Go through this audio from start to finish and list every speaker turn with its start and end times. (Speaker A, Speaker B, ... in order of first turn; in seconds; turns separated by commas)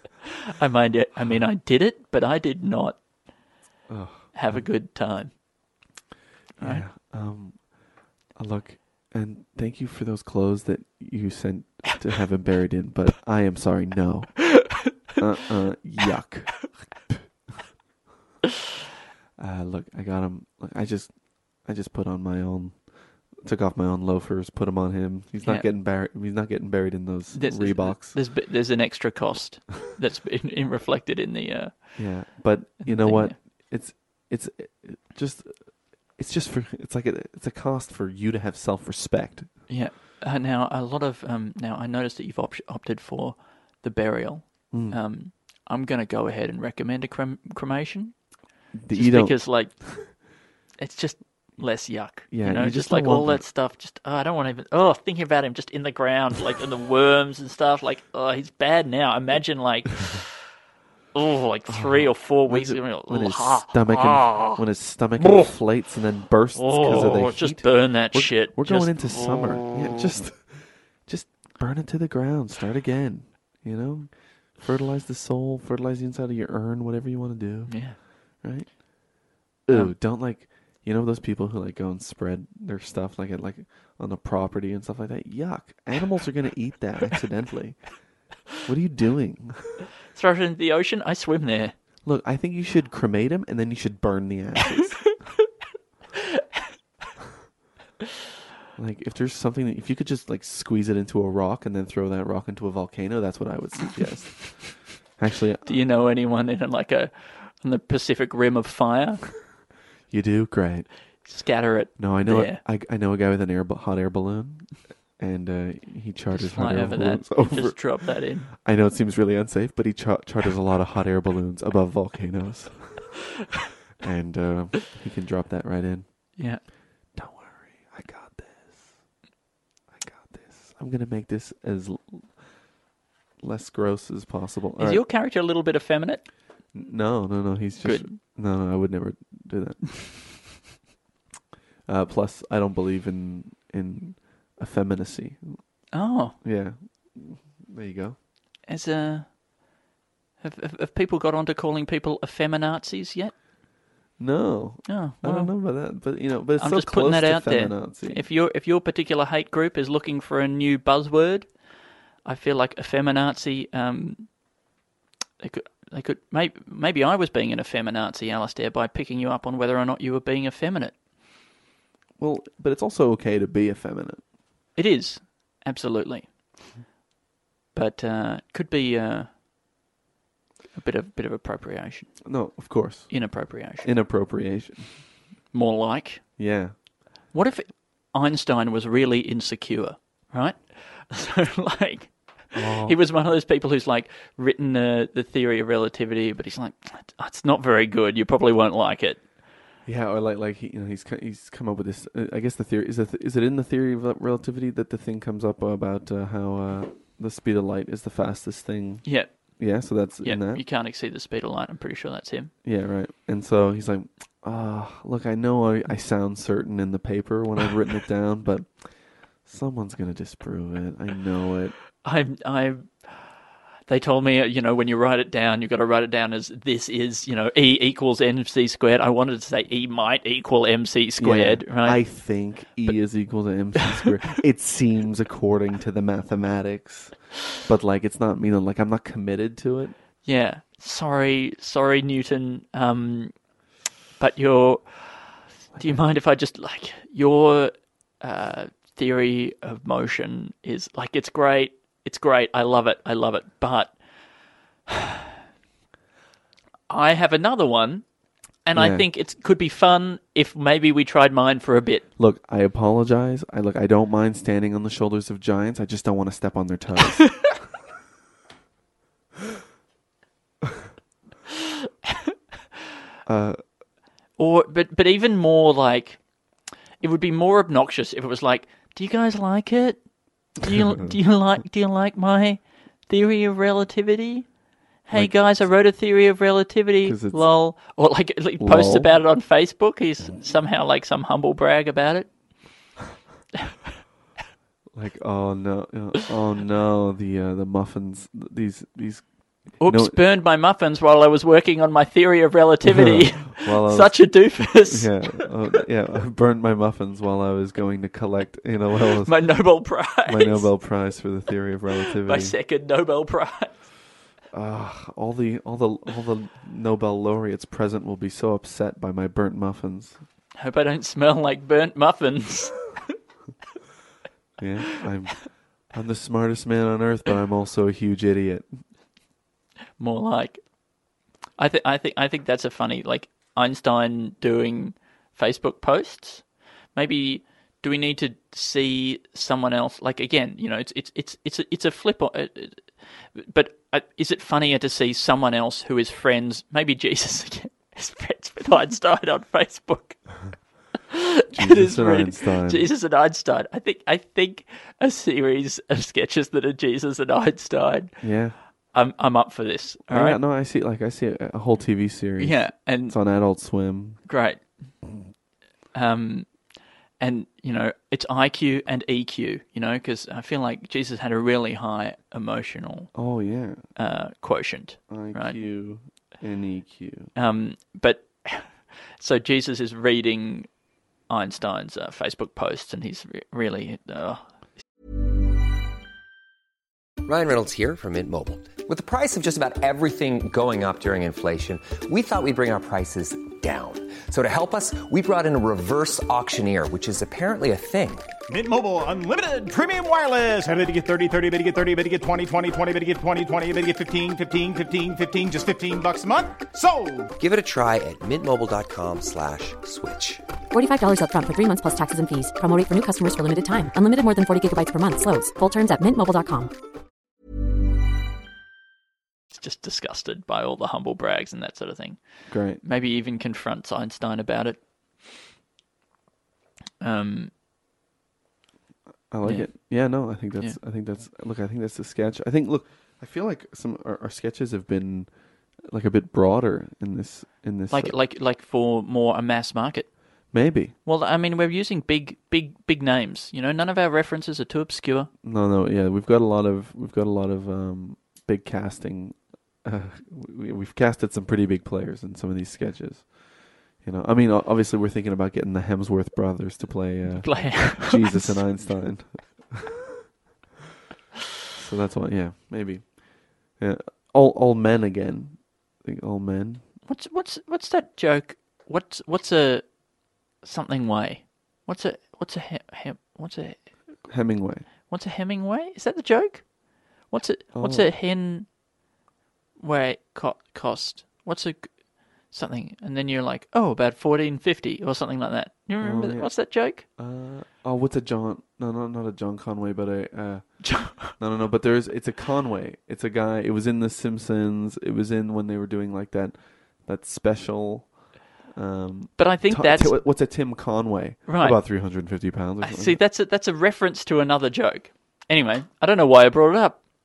Speaker A: 0.6-3.0, Speaker B: 3.9-4.7, Speaker A: 4.3-5.3, Speaker A: 6.6-6.8, Speaker B: 6.6-17.2, Speaker B: 19.4-28.2, Speaker A: 25.4-25.7, Speaker A: 27.3-33.3, Speaker B: 31.9-39.7, Speaker A: 39.7-48.4, Speaker B: 44.7-45.0, Speaker B: 48.7-49.8, Speaker A: 48.9-60.3, Speaker B: 52.3-53.4, Speaker A: 61.1-64.6, Speaker B: 61.7-89.8, Speaker A: 66.5-70.0, Speaker A: 77.7-78.0, Speaker A: 90.1-91.7, Speaker B: 92.0-95.2, Speaker B: 98.8-105.8, Speaker A: 105.7-109.4, Speaker B: 110.1-111.1, Speaker A: 111.2-112.6, Speaker B: 112.0-123.3, Speaker A: 116.3-118.5, Speaker B: 124.0-129.1, Speaker A: 126.4-126.6, Speaker B: 129.9-132.5, Speaker B: 133.4-135.0, Speaker A: 134.8-136.2, Speaker B: 136.7-140.6, Speaker A: 137.8-138.2, Speaker B: 141.8-145.8, Speaker A: 145.9-146.4, Speaker B: 146.4-148.2, Speaker A: 148.7-149.4, Speaker A: 150.4-153.3, Speaker B: 154.2-158.2, Speaker A: 154.8-156.1, Speaker A: 156.6-161.6, Speaker A: 162.2-164.4, Speaker A: 165.4-170.9, Speaker B: 172.2-174.2, Speaker A: 174.7-176.3, Speaker A: 177.7-179.3, Speaker A: 180.7-182.3, Speaker B: 182.2-185.1, Speaker A: 183.1-183.9, Speaker A: 185.5-186.3, Speaker B: 186.4-186.8, Speaker A: 187.3-199.2, Speaker B: 192.5-193.0, Speaker B: 199.8-210.6, Speaker A: 209.0-212.5, Speaker B: 212.6-221.8, Speaker A: 222.0-222.9, Speaker A: 223.9-232.0, Speaker B: 231.2-239.9, Speaker A: 240.2-243.3, Speaker A: 244.2-253.9, Speaker A: 256.9-258.0, Speaker A: 258.6-262.1, Speaker B: 258.7-259.1, Speaker B: 262.2-267.6, Speaker B: 273.2-273.6, Speaker A: 274.4-276.2, Speaker A: 277.0-284.5, Speaker A: 285.0-292.3, Speaker B: 285.1-285.7, Speaker B: 287.0-287.5, Speaker B: 288.6-289.1, Speaker B: 294.9-300.2, Speaker A: 299.8-305.5, Speaker B: 302.8-312.6, Speaker A: 309.2-310.7, Speaker A: 312.2-313.9, Speaker B: 314.5-320.2, Speaker A: 320.6-323.0, Speaker B: 324.6-328.8, Speaker A: 330.0-330.6, Speaker A: 331.6-350.4, Speaker A: 351.1-358.2, Speaker B: 351.5-352.9, Speaker B: 358.2-358.6, Speaker A: 358.9-360.4, Speaker B: 360.1-364.2, Speaker A: 362.4-363.2, Speaker A: 364.2-364.6, Speaker A: 365.9-366.6, Speaker A: 367.2-373.1, Speaker B: 373.1-373.9, Speaker A: 373.9-375.6, Speaker B: 375.1-377.3, Speaker A: 377.3-380.7, Speaker A: 381.3-384.4, Speaker C: 387.2-398.3, Speaker D: 398.5-407.3, Speaker C: 407.4-410.4, Speaker E: 410.7-416.7, Speaker A: 419.5-422.2, Speaker B: 422.5-422.8, Speaker A: 422.7-424.8, Speaker A: 427.0-427.5, Speaker B: 429.3-438.2, Speaker A: 429.4-430.8, Speaker A: 437.9-440.1, Speaker B: 440.5-440.9, Speaker A: 441.0-445.3, Speaker B: 445.4-453.4, Speaker B: 453.9-459.9, Speaker A: 457.4-458.7, Speaker B: 461.7-466.8, Speaker A: 467.1-469.9, Speaker A: 470.6-473.8, Speaker B: 474.3-474.9, Speaker A: 475.1-476.7, Speaker A: 477.3-478.7, Speaker B: 477.7-478.1, Speaker A: 479.8-487.0, Speaker B: 486.0-498.1, Speaker A: 490.8-491.3, Speaker B: 498.7-503.2, Speaker A: 499.4-500.2, Speaker A: 501.5-501.8, Speaker A: 502.8-507.0